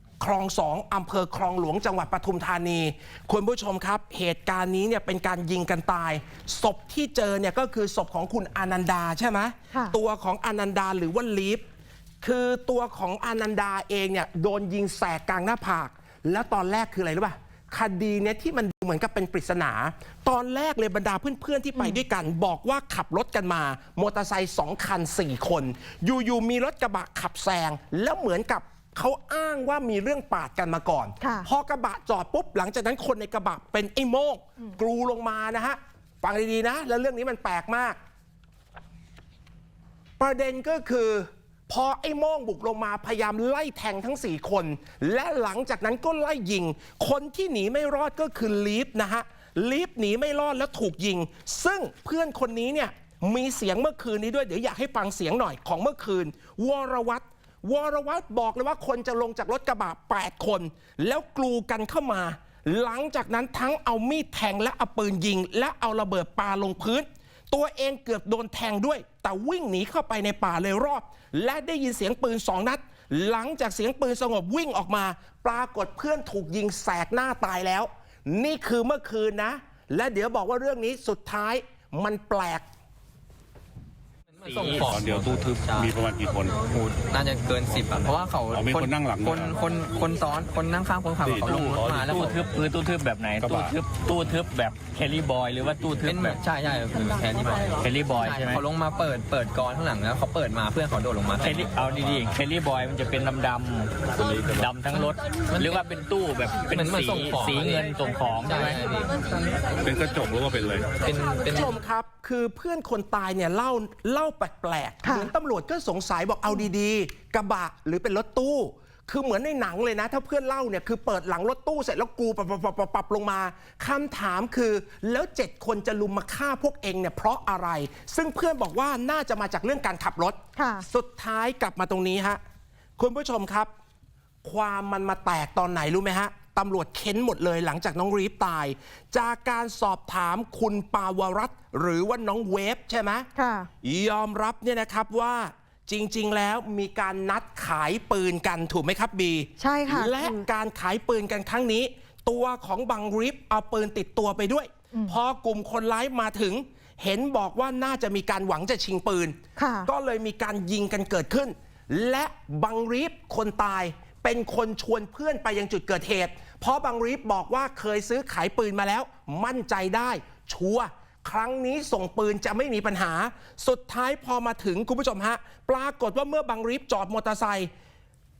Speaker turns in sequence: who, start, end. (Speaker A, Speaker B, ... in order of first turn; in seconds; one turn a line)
Speaker A: 0.2-11.6
Speaker A: 12.2-38.0
Speaker B: 31.2-31.5
Speaker A: 40.2-82.7
Speaker C: 84.3-85.9
Speaker D: 84.5-86.5
Speaker E: 84.7-85.6
Speaker C: 86.7-92.4
Speaker D: 88.5-89.5
Speaker D: 91.2-92.3
Speaker E: 92.1-96.4
Speaker D: 93.4-93.7
Speaker C: 96.0-101.8
Speaker E: 97.8-98.6
Speaker E: 101.4-109.0
Speaker C: 106.8-107.8
Speaker C: 108.4-109.1
Speaker D: 109.9-110.9
Speaker C: 111.0-111.7
Speaker A: 111.4-132.4
Speaker B: 115.0-115.3
Speaker B: 130.6-130.8
Speaker A: 133.0-133.7
Speaker A: 134.4-143.3
Speaker B: 143.3-143.7
Speaker A: 143.8-177.7
Speaker B: 149.6-150.5
Speaker B: 159.6-159.9